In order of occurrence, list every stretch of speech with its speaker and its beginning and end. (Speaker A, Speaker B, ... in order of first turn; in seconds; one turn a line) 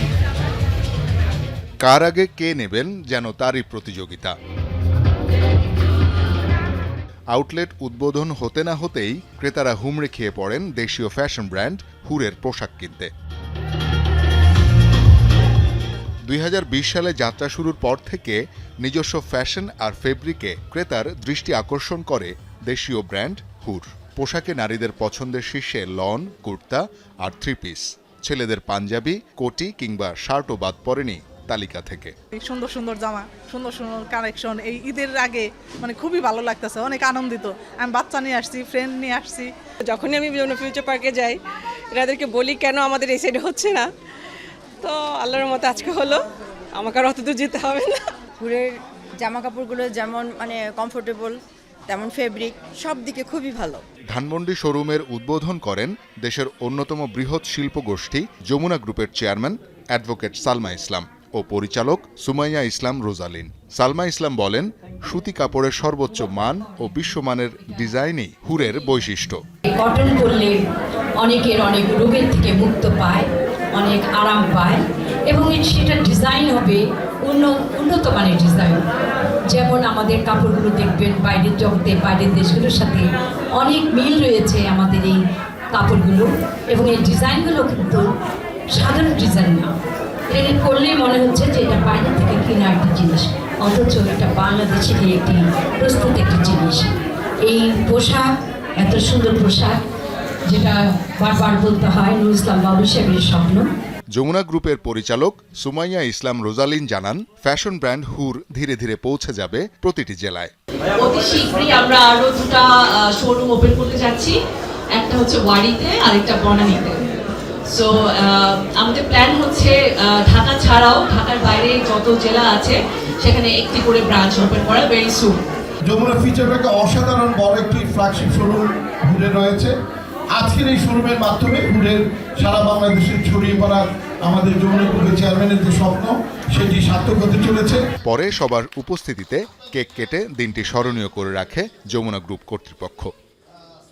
Speaker A: 1.8-4.3
Speaker A: 7.3-13.1
Speaker A: 16.2-32.1
Speaker B: 32.4-39.5
Speaker C: 39.9-41.4
Speaker C: 41.9-43.9
Speaker C: 44.8-48.1
Speaker D: 48.4-53.8
Speaker A: 54.1-69.4
Speaker E: 69.7-70.6
Speaker E: 71.2-78.8
Speaker E: 79.5-85.2
Speaker E: 85.7-88.1
Speaker E: 88.7-89.7
Speaker E: 90.3-96.9
Speaker E: 97.5-98.2
Speaker E: 98.8-99.8
Speaker E: 100.5-103.7
Speaker A: 104.1-110.5
Speaker F: 111.0-114.3
Speaker F: 114.9-117.1
Speaker F: 117.7-125.4
Speaker G: 125.9-129.7
Speaker G: 130.3-137.8
Speaker A: 138.0-143.1